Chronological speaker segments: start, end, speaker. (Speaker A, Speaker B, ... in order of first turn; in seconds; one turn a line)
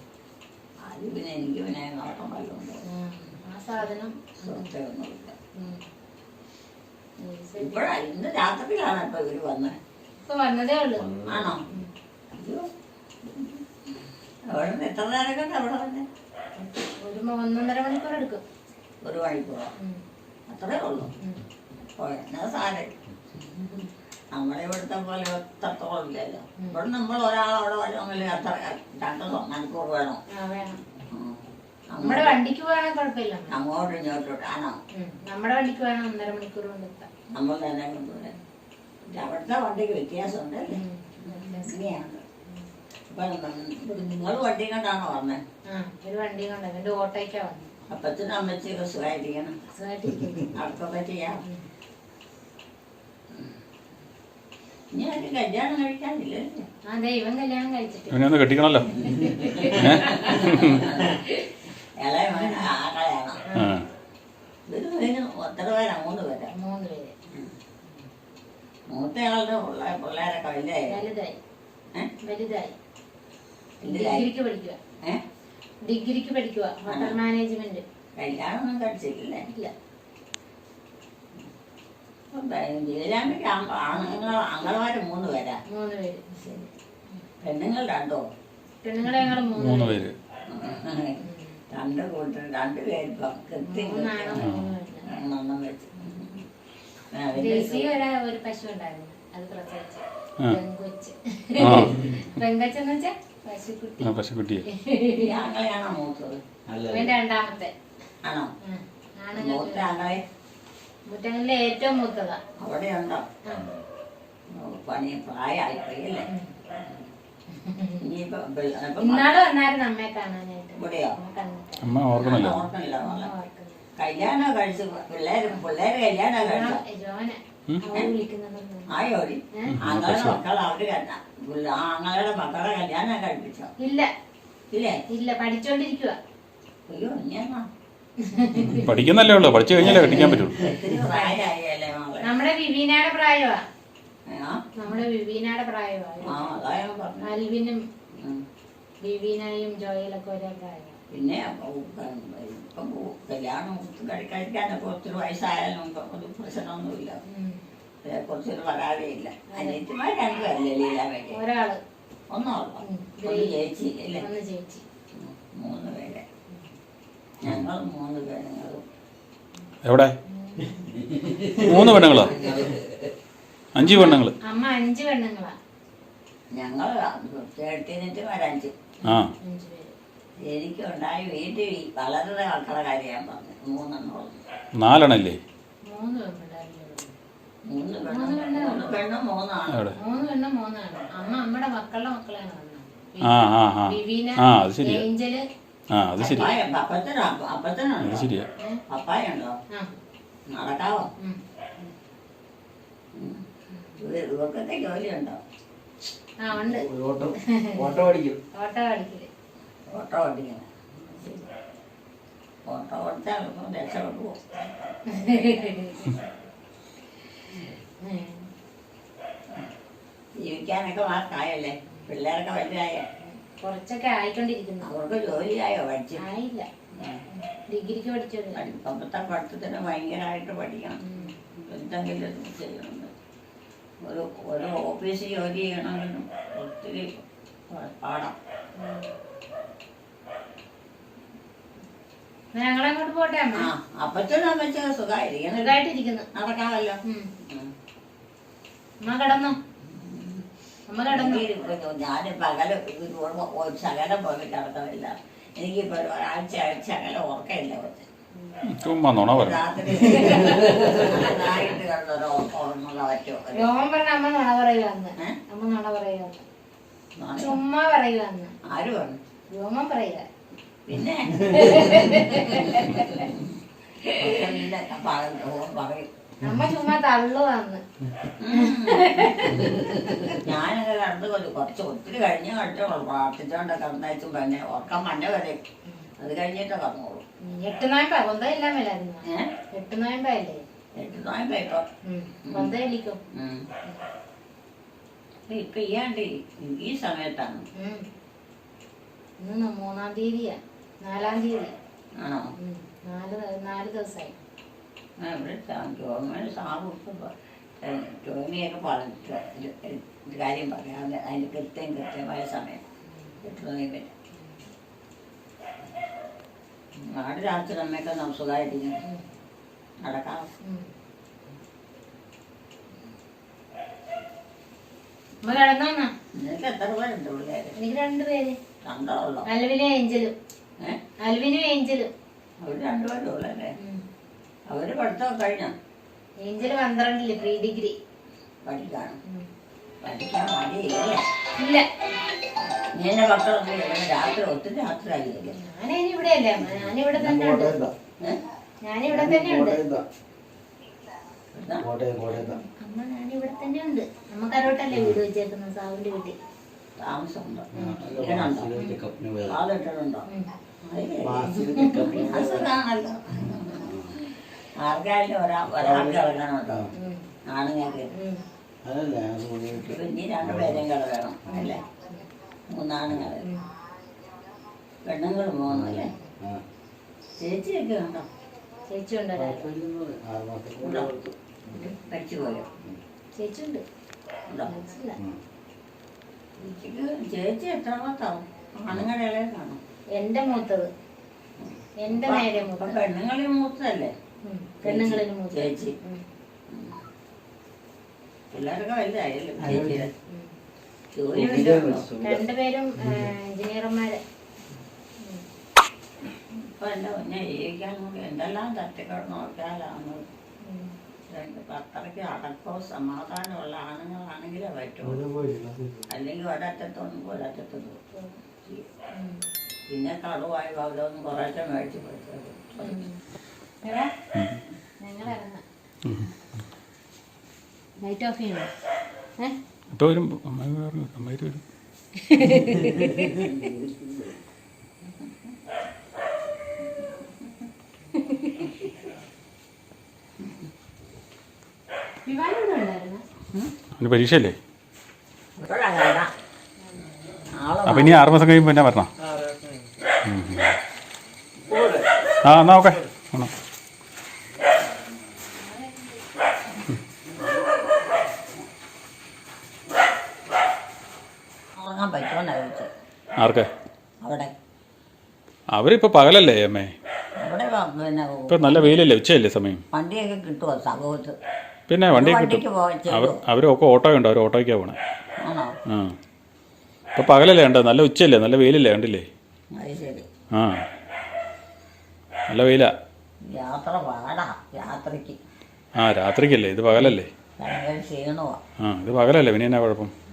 Speaker A: 0.8-2.8
Speaker B: 2.9-4.7
Speaker A: 4.4-5.3
Speaker B: 5.5-5.8
Speaker B: 7.2-7.9
Speaker A: 7.6-9.8
Speaker B: 10.2-11.1
Speaker C: 11.0-11.4
Speaker A: 11.2-11.6
Speaker A: 12.3-12.7
Speaker A: 13.2-13.6
Speaker A: 14.5-16.1
Speaker B: 16.6-18.4
Speaker A: 19.0-19.7
Speaker A: 20.5-21.1
Speaker A: 21.9-30.2
Speaker B: 30.3-30.8
Speaker A: 31.1-32.4
Speaker B: 32.0-33.5
Speaker A: 33.5-34.8
Speaker B: 34.9-37.1
Speaker A: 37.3-38.3
Speaker A: 39.1-42.2
Speaker B: 40.7-42.6
Speaker A: 43.1-45.4
Speaker B: 45.7-47.7
Speaker A: 47.9-49.5
Speaker B: 49.7-50.5
Speaker A: 50.5-51.4
Speaker A: 54.9-56.6
Speaker B: 56.9-58.2
Speaker D: 58.1-59.0
Speaker B: 59.0-60.4
Speaker D: 59.7-60.8
Speaker A: 60.0-61.2
Speaker B: 61.0-61.5
Speaker A: 62.0-63.4
Speaker B: 62.4-62.6
Speaker B: 63.5-63.8
Speaker D: 63.5-63.8
Speaker A: 64.7-66.5
Speaker B: 66.5-67.1
Speaker A: 68.9-71.0
Speaker B: 70.9-71.3
Speaker B: 72.2-72.7
Speaker A: 73.8-74.3
Speaker B: 73.8-74.8
Speaker B: 75.8-77.8
Speaker A: 76.9-77.2
Speaker A: 78.2-79.5
Speaker A: 82.3-85.6
Speaker B: 85.7-86.4
Speaker A: 86.4-86.7
Speaker A: 87.4-88.2
Speaker B: 88.8-90.1
Speaker D: 89.6-90.1
Speaker A: 90.5-91.2
Speaker B: 91.2-91.6
Speaker A: 91.7-96.4
Speaker B: 93.7-95.1
Speaker D: 94.4-94.6
Speaker A: 97.1-97.9
Speaker B: 97.3-104.1
Speaker D: 101.6-102.0
Speaker D: 104.0-104.6
Speaker B: 104.7-105.3
Speaker A: 105.2-106.4
Speaker C: 106.7-107.1
Speaker B: 106.9-107.7
Speaker A: 108.2-108.5
Speaker B: 108.6-110.0
Speaker A: 109.3-110.2
Speaker B: 111.0-112.4
Speaker A: 112.6-113.2
Speaker A: 114.5-116.3
Speaker B: 116.3-116.5
Speaker B: 117.5-118.0
Speaker A: 118.0-119.2
Speaker B: 119.0-122.0
Speaker A: 120.8-121.2
Speaker D: 121.8-122.7
Speaker A: 122.1-123.3
Speaker B: 123.0-123.8
Speaker A: 124.0-126.8
Speaker B: 126.4-128.9
Speaker A: 128.9-133.7
Speaker D: 129.7-130.4
Speaker B: 133.8-134.1
Speaker A: 134.7-135.0
Speaker B: 135.1-136.2
Speaker A: 136.9-137.7
Speaker B: 138.3-139.1
Speaker D: 138.7-140.6
Speaker A: 140.1-142.3
Speaker B: 141.1-141.5
Speaker B: 142.2-143.6
Speaker A: 144.3-144.6
Speaker B: 144.8-146.6
Speaker A: 146.2-147.3
Speaker B: 147.2-147.8
Speaker B: 149.0-151.0
Speaker A: 151.1-157.2
Speaker B: 157.2-157.6
Speaker A: 158.0-161.4
Speaker B: 159.5-159.8
Speaker B: 161.3-161.8
Speaker A: 162.3-164.2
Speaker B: 162.8-163.6
Speaker B: 164.2-164.8
Speaker A: 165.2-166.2
Speaker A: 167.4-168.8
Speaker D: 169.8-170.1
Speaker B: 170.3-170.9
Speaker D: 171.5-172.5
Speaker A: 172.3-172.8
Speaker D: 173.7-174.3
Speaker B: 173.8-175.5
Speaker A: 176.5-178.7
Speaker B: 179.0-179.9
Speaker A: 180.4-184.4
Speaker D: 184.8-185.4
Speaker B: 185.8-187.1
Speaker A: 187.7-189.8
Speaker B: 188.1-189.0
Speaker B: 189.9-195.4
Speaker D: 193.2-195.0
Speaker D: 195.9-196.5
Speaker A: 196.2-198.3
Speaker D: 198.0-198.4
Speaker A: 198.9-199.6
Speaker A: 200.5-201.1
Speaker B: 201.2-201.9
Speaker A: 203.1-203.4
Speaker B: 203.7-204.0
Speaker A: 204.0-205.4
Speaker B: 206.4-209.3
Speaker C: 206.7-208.4
Speaker A: 209.9-211.5
Speaker A: 212.7-215.9
Speaker B: 215.1-216.2
Speaker B: 218.0-218.5
Speaker A: 220.4-223.0
Speaker B: 223.2-224.9
Speaker A: 224.8-226.2
Speaker B: 226.2-226.7
Speaker B: 227.3-228.6
Speaker A: 228.5-231.0
Speaker B: 231.0-231.3
Speaker A: 231.6-233.1
Speaker A: 234.0-238.3
Speaker B: 238.8-239.1
Speaker B: 242.5-243.7
Speaker A: 243.6-245.8
Speaker B: 245.5-246.3
Speaker A: 246.3-247.7
Speaker B: 249.0-249.6
Speaker A: 249.9-250.4
Speaker B: 250.9-251.5
Speaker A: 251.1-258.1
Speaker B: 258.4-258.7
Speaker D: 258.6-259.6
Speaker A: 259.2-263.7
Speaker B: 260.1-260.6
Speaker B: 263.5-266.4
Speaker A: 267.2-267.6
Speaker B: 267.4-268.5
Speaker A: 268.7-269.2
Speaker B: 269.5-270.2
Speaker A: 270.9-276.1
Speaker B: 271.4-273.2
Speaker B: 276.4-277.8
Speaker A: 278.4-285.6
Speaker B: 278.5-279.6
Speaker A: 286.2-287.2
Speaker B: 287.4-290.6
Speaker A: 289.2-289.5
Speaker A: 290.9-291.9
Speaker B: 292.0-293.2
Speaker A: 292.5-292.7
Speaker A: 293.3-293.7
Speaker A: 295.5-297.6
Speaker B: 297.8-298.1
Speaker B: 299.4-301.7
Speaker A: 302.2-302.5
Speaker B: 302.6-304.4
Speaker A: 305.2-312.8
Speaker A: 313.4-314.1
Speaker A: 317.0-319.0
Speaker A: 320.0-320.5
Speaker B: 325.4-326.1
Speaker A: 326.3-327.7
Speaker B: 327.8-328.5
Speaker A: 328.8-329.4
Speaker B: 329.4-330.3
Speaker B: 331.2-332.1
Speaker A: 332.6-333.7
Speaker A: 334.7-335.7
Speaker B: 336.4-337.9
Speaker A: 338.6-339.2
Speaker A: 340.0-341.2
Speaker B: 341.6-341.8
Speaker A: 342.8-345.5
Speaker B: 345.6-347.8
Speaker C: 347.1-347.9
Speaker B: 348.8-349.8
Speaker C: 349.1-350.1
Speaker A: 351.5-351.9
Speaker C: 351.8-352.6
Speaker B: 352.3-356.3
Speaker A: 357.0-358.7
Speaker B: 357.7-358.1
Speaker C: 357.8-359.6
Speaker B: 358.8-359.0
Speaker A: 359.4-360.2
Speaker B: 360.2-360.5
Speaker A: 360.8-366.9
Speaker C: 361.2-362.7
Speaker B: 361.5-362.4
Speaker C: 363.8-364.1
Speaker C: 365.8-366.2
Speaker B: 366.9-367.3
Speaker A: 367.4-368.1
Speaker B: 368.1-368.4
Speaker C: 368.8-369.9
Speaker A: 369.8-371.8
Speaker C: 370.4-370.8
Speaker B: 371.5-372.3
Speaker A: 372.7-373.4
Speaker A: 375.0-376.1
Speaker C: 375.7-376.6
Speaker A: 377.4-378.3
Speaker B: 378.9-379.7
Speaker C: 379.4-381.8
Speaker A: 380.8-381.1
Speaker A: 381.7-382.7
Speaker B: 383.4-383.8
Speaker B: 384.6-385.2
Speaker A: 386.6-389.8
Speaker B: 390.1-390.9
Speaker A: 391.6-394.1
Speaker B: 392.0-393.0
Speaker B: 394.4-396.2
Speaker A: 394.8-395.9
Speaker A: 396.7-397.0
Speaker A: 398.5-400.1
Speaker C: 399.6-400.0
Speaker B: 400.3-400.5
Speaker A: 401.1-402.1
Speaker C: 401.4-402.4
Speaker B: 402.2-404.2
Speaker A: 406.5-410.2
Speaker B: 410.6-410.9
Speaker A: 411.3-415.3
Speaker C: 415.2-416.0
Speaker A: 416.1-418.0
Speaker A: 418.6-419.0
Speaker B: 419.1-419.4
Speaker A: 419.9-423.1
Speaker B: 422.8-423.2
Speaker B: 423.8-424.1
Speaker D: 424.3-424.6
Speaker B: 425.0-425.6
Speaker D: 426.0-426.3
Speaker B: 428.0-428.7
Speaker D: 429.9-431.6
Speaker B: 432.2-433.7
Speaker B: 438.1-438.7
Speaker B: 442.2-443.2
Speaker D: 444.0-444.6
Speaker A: 445.6-446.3
Speaker A: 447.5-448.2
Speaker D: 447.8-449.1
Speaker D: 450.2-450.7
Speaker C: 451.7-452.0
Speaker D: 452.4-453.5
Speaker B: 455.7-456.2
Speaker A: 461.8-462.9
Speaker D: 463.4-463.7
Speaker A: 464.2-464.5
Speaker D: 465.7-466.9
Speaker A: 467.4-469.1
Speaker D: 468.5-469.8
Speaker A: 469.9-471.4
Speaker D: 471.9-475.0
Speaker A: 472.1-473.4
Speaker A: 475.4-475.8
Speaker D: 475.9-476.1
Speaker D: 477.1-479.2
Speaker A: 479.7-480.3
Speaker D: 480.5-480.8
Speaker D: 482.5-482.9
Speaker A: 483.4-485.4
Speaker D: 486.0-487.3
Speaker A: 486.9-488.6
Speaker D: 488.8-490.1